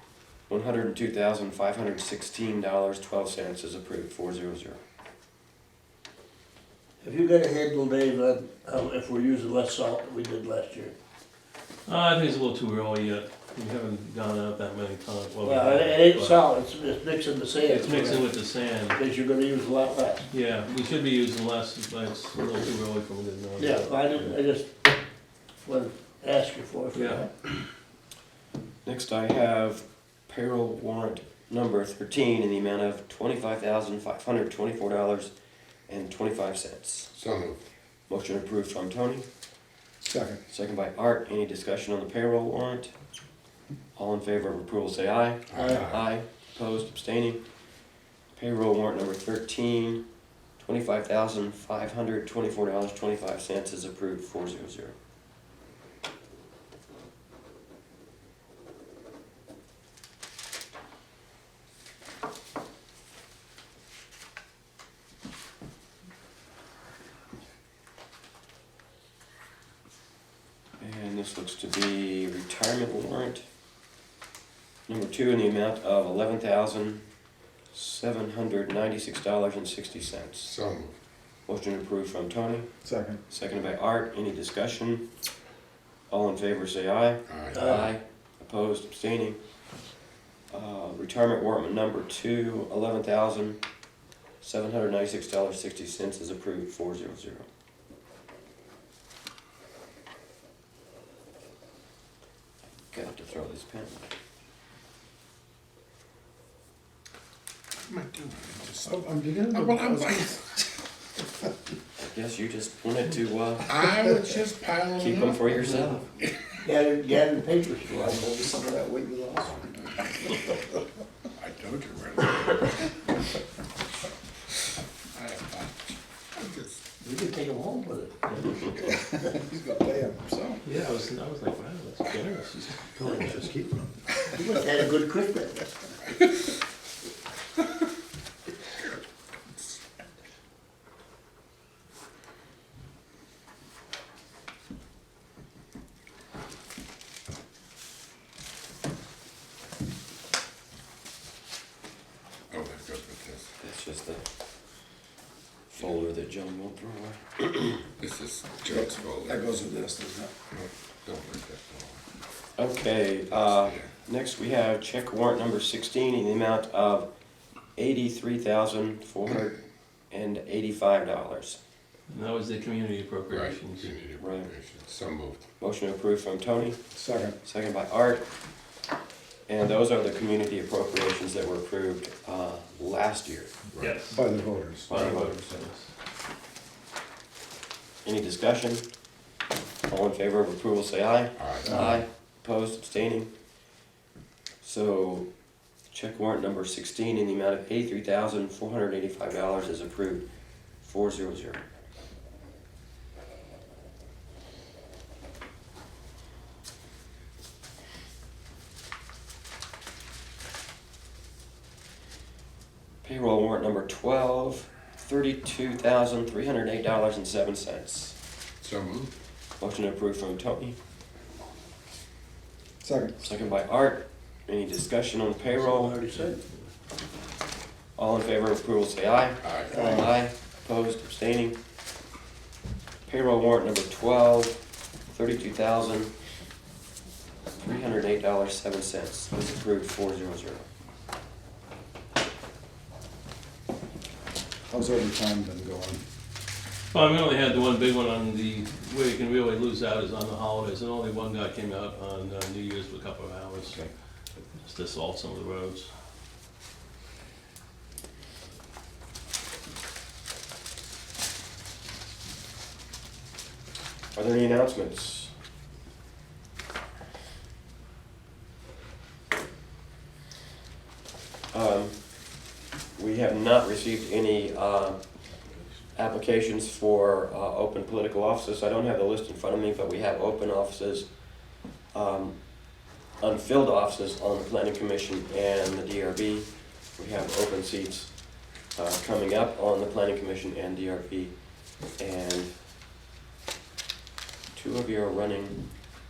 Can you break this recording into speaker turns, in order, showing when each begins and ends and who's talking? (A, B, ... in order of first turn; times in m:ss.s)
0:00.5-0:04.8 A
0:07.0-0:10.9 B
0:11.9-0:16.4 C
0:15.4-0:18.3 B
0:17.6-0:19.0 C
0:18.9-0:20.3 B
0:20.3-0:24.4 C
0:23.6-0:24.7 B
0:25.6-0:27.3 B
0:26.9-0:27.3 C
0:28.8-0:35.3 A
0:35.9-0:37.1 A
0:37.2-0:37.6 D
0:38.1-0:39.3 A
0:40.0-0:40.4 E
0:40.5-0:42.9 A
0:44.0-0:47.4 A
0:45.5-0:46.0 D
0:45.6-0:45.9 B
0:48.4-0:50.0 A
0:50.6-0:55.0 A
1:10.8-1:13.4 A
1:14.9-1:17.0 A
1:17.7-1:20.5 A
1:20.4-1:21.0 D
1:21.5-1:22.7 A
1:22.8-1:23.2 E
1:23.3-1:25.1 A
1:26.1-1:29.4 A
1:27.3-1:27.9 D
1:27.6-1:27.8 B
1:30.5-1:33.6 A
1:34.4-1:37.5 A
1:42.9-1:44.1 A
1:47.8-1:50.4 D
1:48.9-1:50.4 E
1:52.0-1:53.7 A
1:53.7-1:56.6 D
1:55.0-1:56.0 A
1:56.6-1:58.3 B
1:58.0-2:00.5 E
2:01.4-2:03.0 D
2:05.1-2:06.8 D
2:07.0-2:08.4 B
2:08.8-2:10.6 E
2:10.6-2:13.6 C
2:13.4-2:13.9 E
2:14.3-2:15.7 B
2:32.5-2:33.5 D
2:33.6-2:34.2 A
2:35.7-2:37.8 A
2:38.0-2:39.4 D
2:38.7-2:40.3 E
2:40.5-2:42.0 D
2:42.6-2:47.1 A
2:43.3-2:43.9 D
2:47.8-2:49.6 A
2:50.1-2:51.6 A
2:52.1-2:53.9 C
2:53.3-2:55.4 D
2:54.2-2:54.5 A
2:55.6-2:56.8 A
2:56.9-2:57.4 E
2:57.4-2:58.2 A
2:59.5-3:03.5 A
3:03.7-3:04.1 D
3:03.8-3:04.2 C
3:04.1-3:05.6 E
3:04.9-3:05.9 C
3:04.9-3:05.4 A
3:08.0-3:08.8 A
3:09.9-3:13.3 A
3:11.4-3:11.8 D
3:11.6-3:12.0 E
3:14.6-3:15.3 A
3:15.9-3:20.2 A
3:20.8-3:21.6 A
3:33.0-3:38.2 A
3:38.6-3:39.1 D
3:39.6-3:40.8 A
3:42.8-3:43.2 E
3:43.2-3:46.0 A
3:45.6-3:46.4 B
3:48.0-3:51.6 A
3:49.4-3:49.7 D
3:49.7-3:50.1 E
3:53.1-3:56.1 A
3:57.6-4:00.6 A
4:04.7-4:06.0 E
4:06.9-4:13.8 C
4:14.6-4:15.9 C
4:24.2-4:25.3 A
4:31.5-4:32.1 A
4:33.0-4:35.0 A
4:36.0-4:41.1 A
4:41.9-4:42.4 A
4:43.2-4:51.3 A
4:52.0-4:52.5 A
4:54.5-4:55.7 A